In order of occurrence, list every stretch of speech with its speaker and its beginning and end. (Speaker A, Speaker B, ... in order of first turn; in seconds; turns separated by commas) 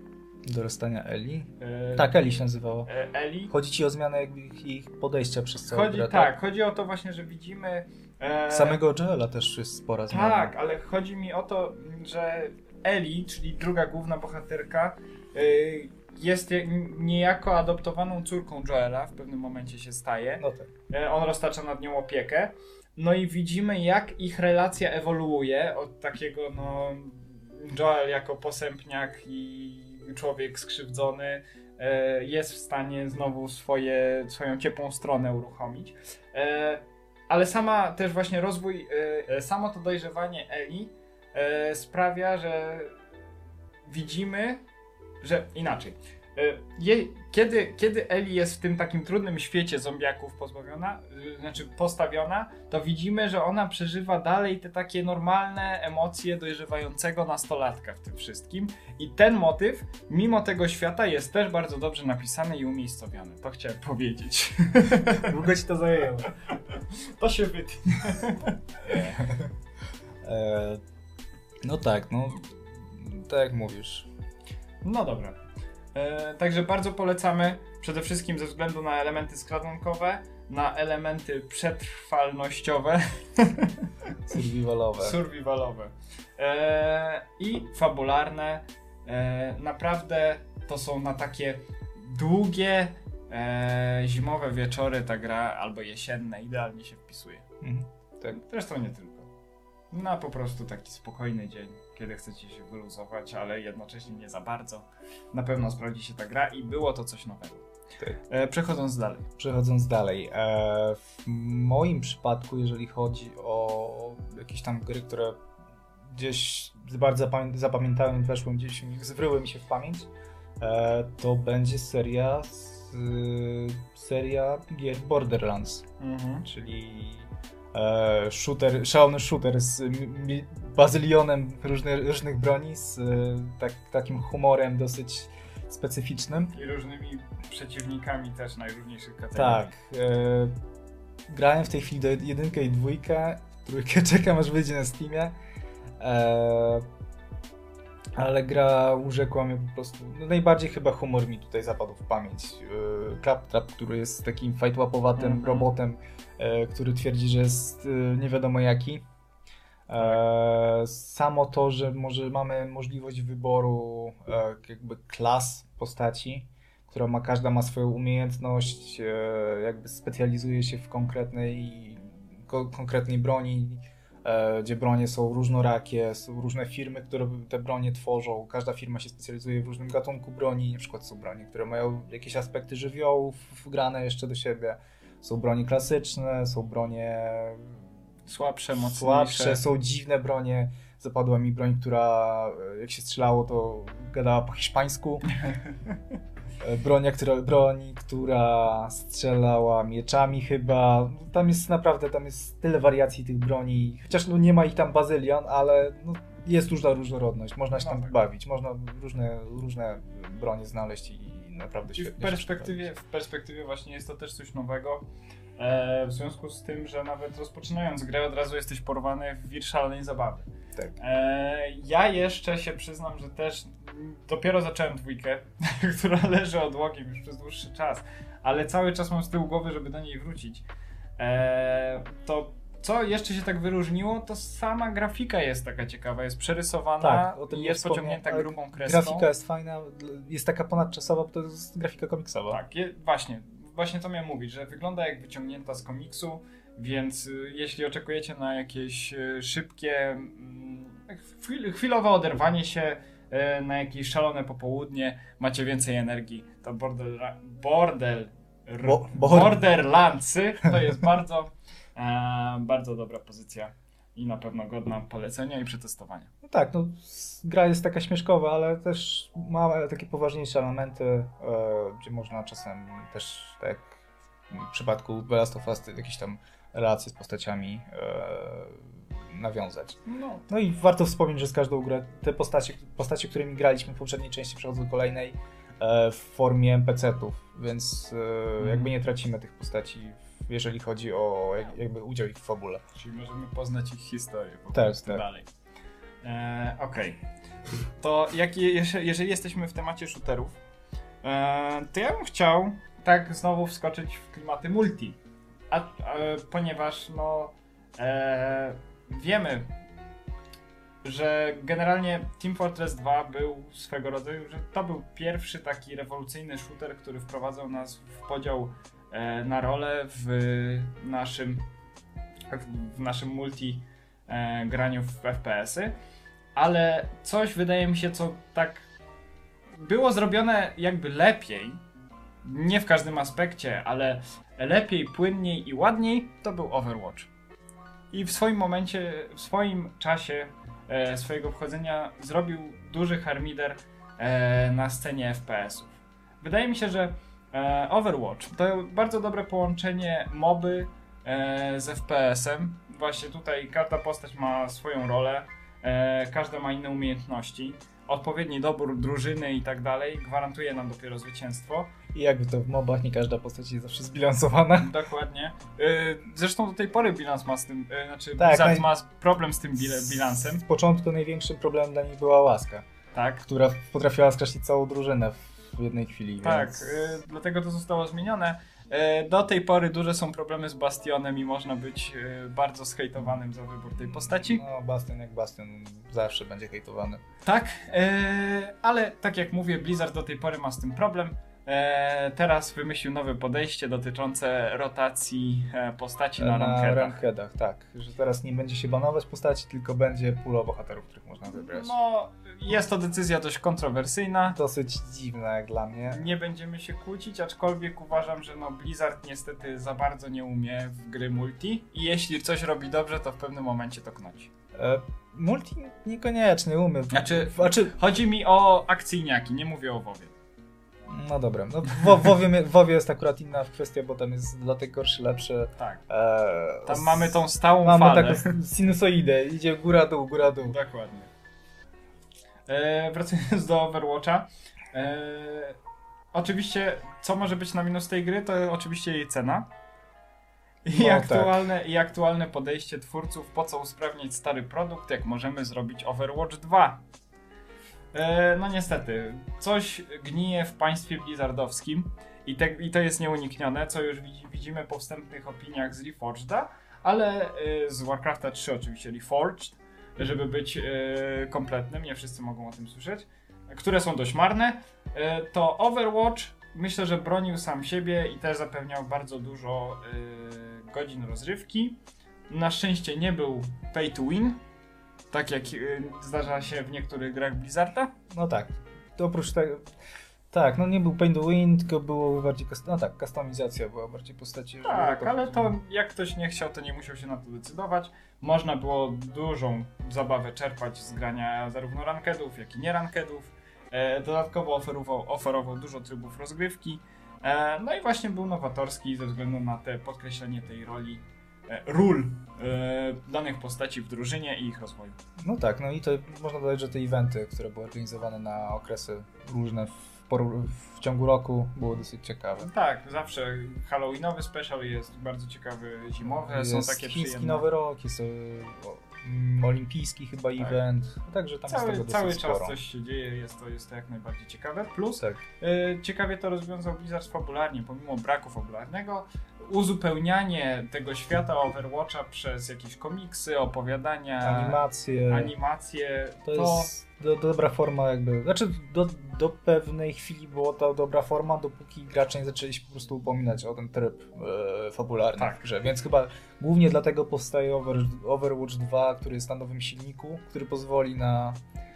Speaker A: 0.5-2.9, Speaker B: 1.6-2.1, Speaker B: 2.9-3.5, Speaker A: 3.5-6.3, Speaker B: 5.7-8.8, Speaker A: 8.5-10.5, Speaker B: 10.1-43.0, Speaker A: 20.4-20.7, Speaker B: 43.9-44.6, Speaker B: 45.2-65.3, Speaker A: 65.2-66.3, Speaker B: 66.7-69.2, Speaker A: 68.9-69.5, Speaker A: 70.2-70.8, Speaker A: 71.6-74.1, Speaker B: 74.8-75.4, Speaker B: 75.9-84.1, Speaker A: 84.2-85.2, Speaker B: 85.0-97.5, Speaker A: 97.6-98.4, Speaker B: 98.3-99.3, Speaker B: 99.9-107.7, Speaker B: 108.3-109.2, Speaker A: 109.4-115.4, Speaker A: 116.1-120.1, Speaker A: 120.6-125.8, Speaker B: 126.0-126.5, Speaker A: 126.4-136.5, Speaker B: 136.5-139.7, Speaker A: 139.3-140.5, Speaker A: 141.3-145.3, Speaker A: 146.0-146.8, Speaker A: 148.2-159.0, Speaker B: 155.2-155.7, Speaker A: 159.9-187.8, Speaker B: 188.3-189.6, Speaker A: 188.8-195.3, Speaker A: 196.6-212.9, Speaker B: 207.7-208.2, Speaker B: 211.9-215.0, Speaker B: 215.6-230.6, Speaker B: 231.2-239.3, Speaker A: 237.0-242.6, Speaker B: 242.5-266.3, Speaker A: 258.8-259.6, Speaker A: 266.4-274.0, Speaker A: 274.5-292.8, Speaker B: 280.1-280.4, Speaker B: 288.6-288.9, Speaker B: 292.9-295.5, Speaker A: 294.7-295.2, Speaker B: 296.2-297.2, Speaker B: 298.0-300.6, Speaker B: 301.2-305.2, Speaker B: 305.7-309.7, Speaker B: 311.0-321.6, Speaker B: 322.5-325.9, Speaker B: 326.6-328.9, Speaker B: 329.8-331.8, Speaker B: 332.4-337.3, Speaker B: 338.1-361.9, Speaker A: 362.1-364.9, Speaker B: 364.8-370.6, Speaker A: 368.4-368.9, Speaker A: 370.0-372.9, Speaker B: 373.1-373.5, Speaker A: 373.5-377.1, Speaker B: 376.4-384.6, Speaker A: 384.3-387.2, Speaker B: 387.4-397.2, Speaker A: 396.4-401.9, Speaker B: 401.5-404.6, Speaker A: 404.5-406.3, Speaker B: 406.1-414.5, Speaker A: 414.7-417.9, Speaker B: 417.1-420.3, Speaker A: 421.1-430.8, Speaker B: 425.8-426.0, Speaker B: 426.9-428.5, Speaker B: 430.6-431.3, Speaker B: 432.7-435.8, Speaker B: 436.3-439.7, Speaker B: 440.8-447.0, Speaker A: 440.9-441.6, Speaker B: 448.1-474.6, Speaker B: 475.3-478.1, Speaker A: 478.3-479.9, Speaker A: 480.5-485.7, Speaker B: 484.8-505.2, Speaker A: 505.4-512.7, Speaker B: 512.6-517.6, Speaker A: 516.2-522.8, Speaker B: 521.7-536.9, Speaker A: 534.4-535.5, Speaker A: 536.4-551.6, Speaker B: 545.4-545.7